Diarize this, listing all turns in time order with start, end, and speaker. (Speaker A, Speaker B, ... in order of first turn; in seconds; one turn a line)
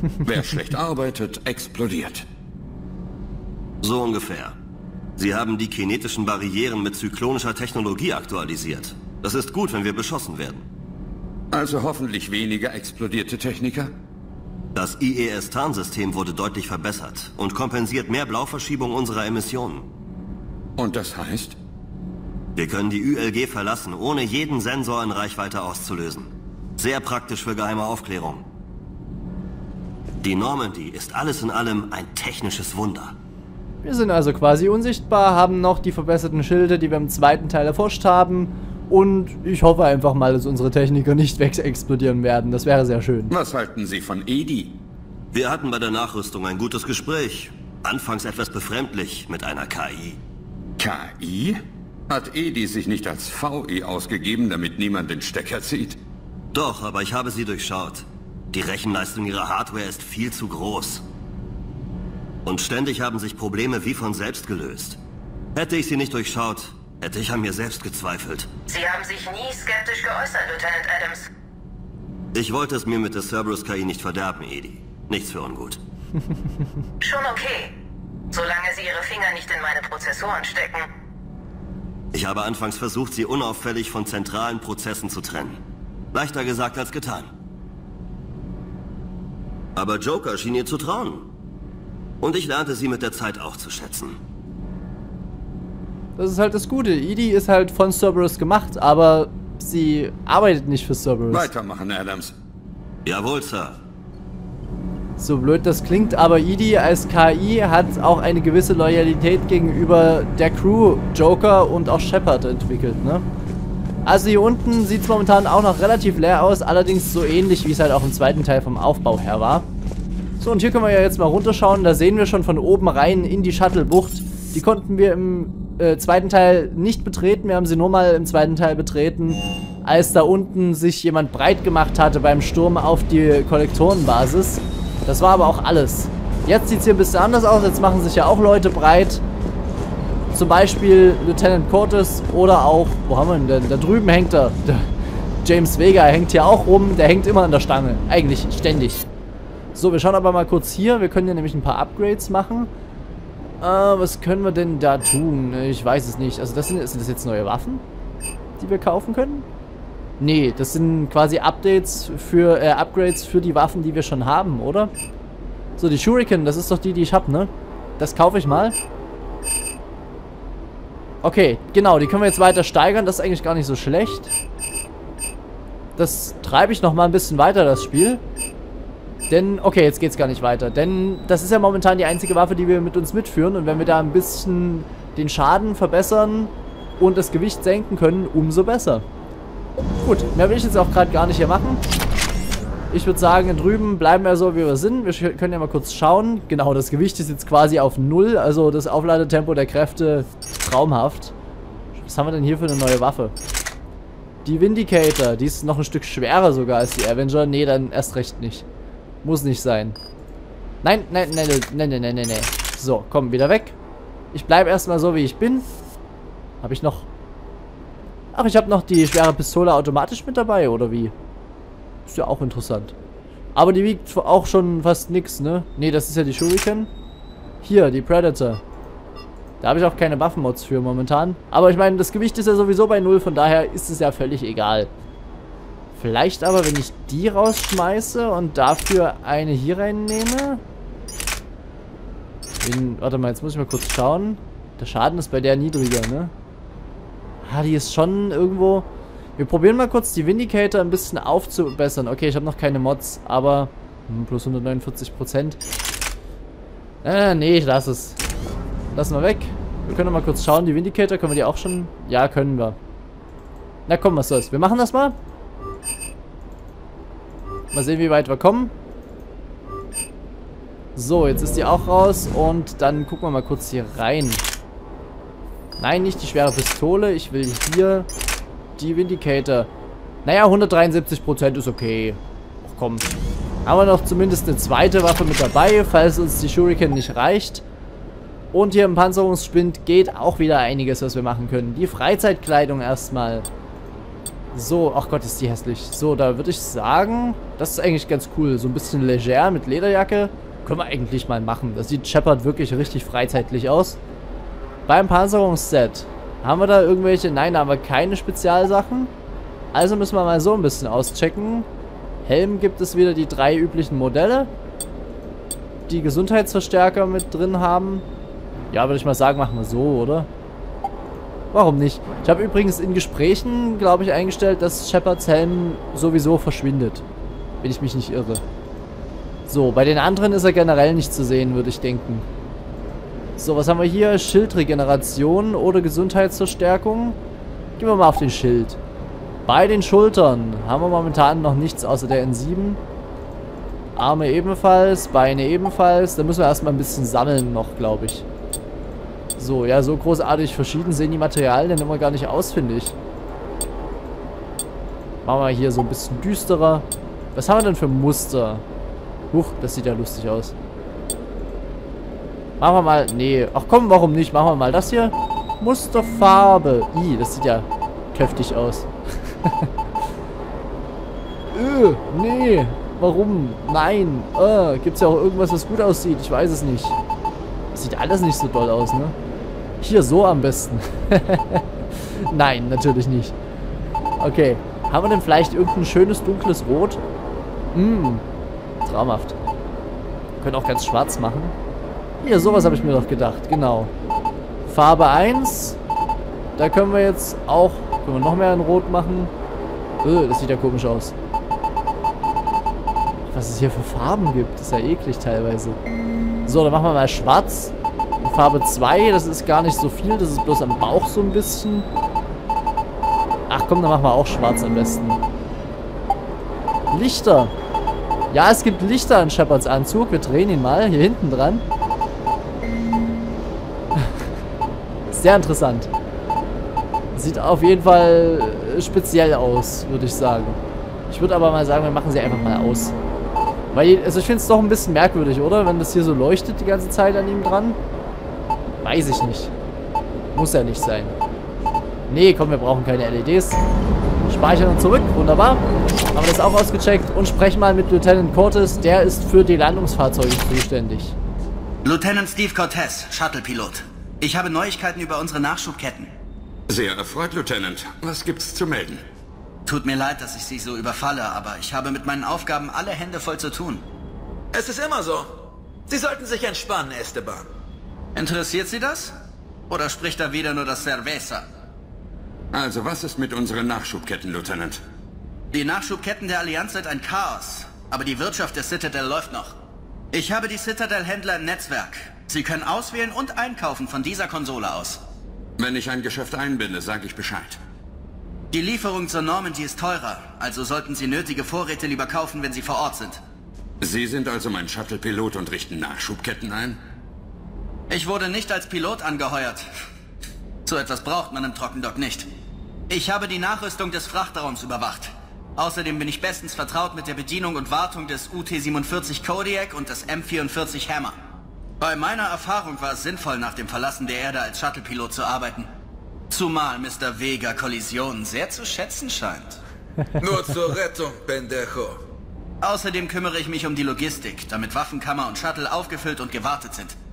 Speaker A: 0.2-2.2
Speaker B: 3.8-4.6
Speaker B: 5.2-10.7
Speaker A: 11.5-13.9
Speaker B: 14.7-19.9
Speaker A: 20.8-21.6
Speaker B: 22.6-28.5
Speaker B: 30.2-33.1
Speaker C: 33.8-43.3
Speaker A: 43.3-44.8
Speaker B: 45.3-50.2
Speaker A: 50.8-51.6
Speaker A: 52.1-56.0
Speaker B: 56.5-61.1
Speaker B: 62.5-65.0
Speaker B: 65.5-68.7
Speaker D: 68.7-71.3
Speaker B: 72.3-75.8
Speaker D: 77.0-77.8
Speaker D: 78.3-80.9
Speaker B: 82.1-85.6
Speaker B: 86.1-87.3
Speaker B: 89.8-91.3
Speaker B: 92.2-94.2
Speaker C: 96.2-101.5
Speaker A: 101.3-102.3
Speaker B: 103.0-103.8
Speaker C: 105.2-113.2
Speaker C: 114.1-119.7
Speaker C: 120.4-139.2
Speaker C: 140.3-144.9
Speaker C: 145.4-149.1
Speaker C: 149.8-152.7
Speaker C: 153.6-157.8
Speaker C: 158.6-159.5
Speaker C: 160.2-164.9
Speaker C: 165.8-168.8
Speaker C: 171.2-174.3
Speaker C: 176.0-178.2
Speaker C: 179.3-189.1
Speaker C: 190.0-191.8
Speaker C: 192.9-201.3
Speaker C: 202.0-203.3
Speaker C: 204.4-208.7
Speaker C: 209.2-210.0
Speaker C: 210.8-213.8
Speaker C: 214.3-215.7
Speaker C: 216.6-217.1
Speaker C: 218.3-221.1
Speaker C: 222.1-222.9
Speaker C: 223.6-226.9
Speaker C: 227.6-228.6
Speaker C: 229.6-234.9
Speaker C: 235.9-240.6
Speaker C: 242.6-246.3
Speaker C: 247.4-255.6
Speaker C: 257.0-258.2
Speaker C: 258.9-262.8
Speaker C: 263.9-265.2
Speaker C: 267.7-268.7
Speaker C: 270.9-274.4
Speaker C: 275.8-278.1
Speaker C: 278.8-279.7
Speaker C: 280.2-283.1
Speaker C: 283.7-287.6
Speaker C: 288.5-293.5
Speaker C: 294.5-304.0
Speaker C: 304.9-309.1
Speaker C: 309.7-311.7
Speaker C: 312.2-314.5
Speaker C: 315.9-318.1
Speaker C: 318.7-320.3
Speaker C: 321.5-327.1
Speaker C: 327.6-328.4
Speaker C: 329.5-332.2
Speaker C: 333.4-337.2
Speaker C: 337.8-338.8
Speaker C: 339.5-342.8
Speaker C: 344.0-348.3
Speaker C: 349.4-353.0
Speaker C: 355.2-358.6
Speaker C: 359.3-360.6
Speaker C: 362.6-369.7
Speaker C: 371.5-377.0
Speaker C: 377.7-379.1
Speaker C: 379.8-383.4
Speaker C: 384.2-387.0
Speaker C: 387.7-388.2
Speaker C: 388.9-389.4
Speaker C: 390.4-391.5
Speaker C: 392.2-393.9
Speaker C: 394.7-395.8
Speaker C: 396.6-399.3
Speaker C: 400.0-401.1
Speaker C: 403.3-405.8
Speaker C: 406.5-411.9
Speaker C: 413.5-415.2
Speaker C: 416.9-417.5
Speaker C: 418.3-421.6
Speaker C: 425.1-425.9
Speaker C: 427.1-432.9
Speaker C: 433.7-437.8
Speaker C: 438.8-439.5
Speaker C: 440.3-441.2
Speaker C: 442.1-443.6
Speaker C: 444.2-451.2
Speaker E: 451.9-456.1
Speaker A: 456.7-459.0
Speaker E: 459.7-463.8
Speaker F: 464.5-465.3
Speaker F: 465.9-467.5
Speaker E: 468.2-469.1
Speaker E: 469.7-471.4
Speaker A: 472.5-474.8
Speaker E: 475.5-479.5
Speaker E: 480.1-485.0
Speaker A: 485.6-487.6
Speaker E: 488.5-493.2
Speaker A: 493.8-496.8
Speaker E: 497.9-499.6
Speaker E: 500.7-502.3
Speaker E: 502.9-511.2
Speaker E: 511.8-515.7
Speaker E: 516.3-519.6
Speaker F: 520.2-522.0
Speaker E: 522.6-527.0